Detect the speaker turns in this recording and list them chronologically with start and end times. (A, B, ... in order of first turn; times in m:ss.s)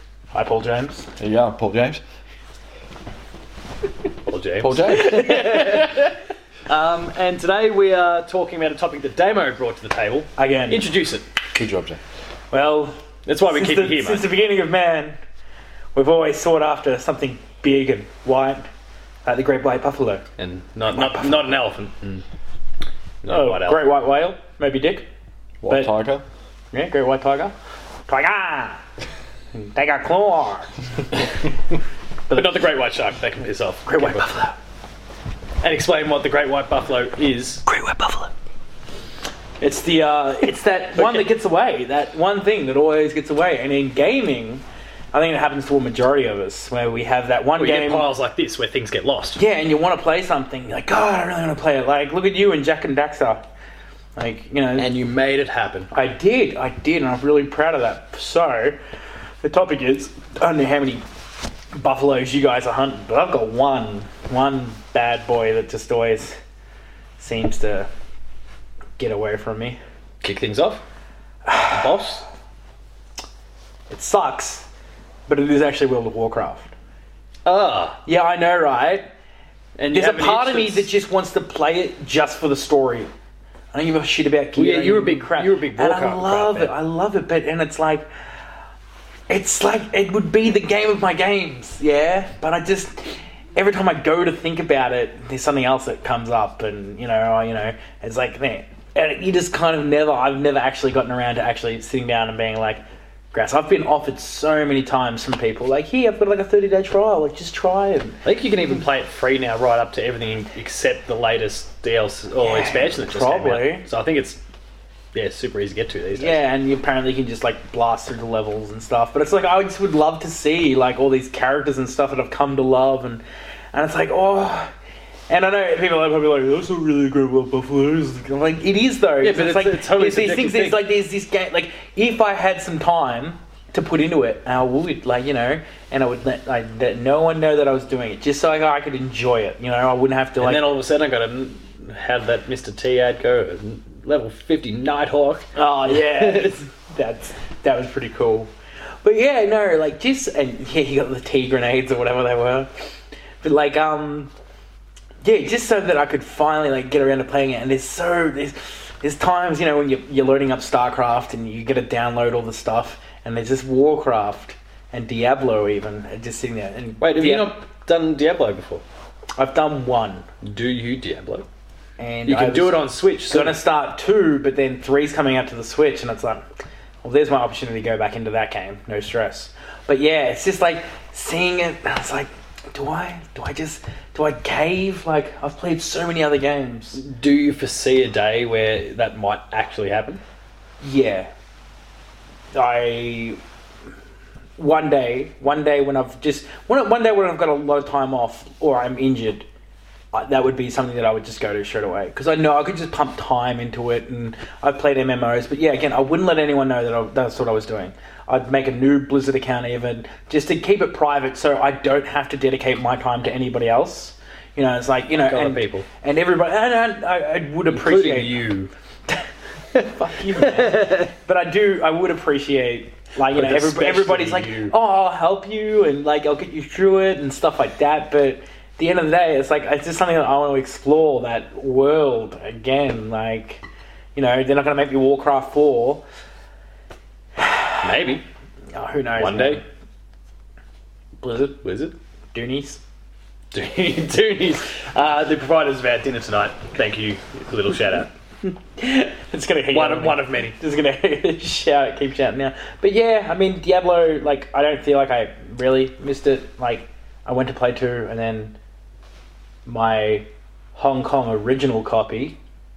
0:00.3-0:01.1 A
0:01.2-0:02.0 B
0:04.3-0:06.1 C
0:04.6-0:05.4 B
0:04.9-0:06.1 A
0:06.7-0:11.2 C
0:10.4-0:10.8 A
0:11.6-0:12.0 B
0:12.5-0:15.2 A
0:13.2-0:14.3 C
0:15.9-0:18.7 A
0:19.2-0:20.2 A
0:20.4-0:22.2 C
0:20.9-0:21.6 A
0:23.2-0:23.9 C
0:23.3-0:25.0 A
0:25.6-0:26.2 B
0:25.7-0:26.0 A
0:26.7-0:27.5 A
0:28.1-0:28.8 A
0:29.5-0:30.7 A
0:32.3-0:32.6 A
0:32.3-0:34.3 C
0:33.8-0:34.6 A
0:35.6-0:38.0 C
0:37.7-0:38.3 A
0:39.6-0:48.1 A
0:40.9-0:41.2 C
0:47.6-0:49.4 C
0:49.4-0:53.4 A
0:54.2-0:54.9 A
0:54.8-0:55.9 C
0:55.9-0:58.8 A
0:59.4-1:01.0 A
1:01.7-1:06.4 A
1:07.2-1:07.9 A
1:09.0-1:09.8 A
1:10.2-1:10.8 C
1:11.4-1:12.0 A
1:11.7-1:12.2 C
1:13.9-1:14.7 A
1:15.3-1:16.7 A
1:17.4-1:18.0 C
1:18.0-1:19.1 A
1:19.8-1:20.9 C
1:19.9-1:23.1 A
1:23.7-1:28.1 A
1:24.6-1:26.7 C
1:29.3-1:42.8 A
1:43.3-1:48.2 A
1:48.2-1:54.4 C
1:52.4-1:53.8 A
1:55.1-1:56.4 C
1:56.1-2:03.2 A
2:03.7-2:04.7 A
2:05.3-2:20.7 A
2:09.2-2:10.8 C
2:20.4-2:26.6 C
2:25.5-2:28.5 A
2:29.0-2:32.7 A
2:33.4-2:34.3 A
2:35.2-2:47.6 A
2:47.0-2:48.8 C
2:49.4-2:50.2 A
2:50.4-2:51.4 C
2:52.0-2:56.4 A
2:52.2-2:53.6 C
2:57.0-3:07.0 A
3:07.0-3:10.2 C
3:10.8-3:11.3 A
3:12.5-3:13.4 A
3:14.6-3:19.5 A
3:20.1-3:38.5 A
3:35.1-3:35.8 C
3:37.7-3:38.7 C
3:39.7-3:53.6 A
3:40.3-3:41.1 C
3:43.3-3:44.7 C
3:54.1-3:56.0 A
3:57.4-3:57.9 A
3:57.8-3:58.2 C
3:58.7-3:59.6 A
3:59.2-3:59.6 C
4:01.2-4:01.6 A
4:01.6-4:01.9 C
4:02.3-4:02.8 A
4:03.5-4:08.1 C
4:08.8-4:18.5 A
4:09.7-4:10.5 C
4:19.6-4:22.4 A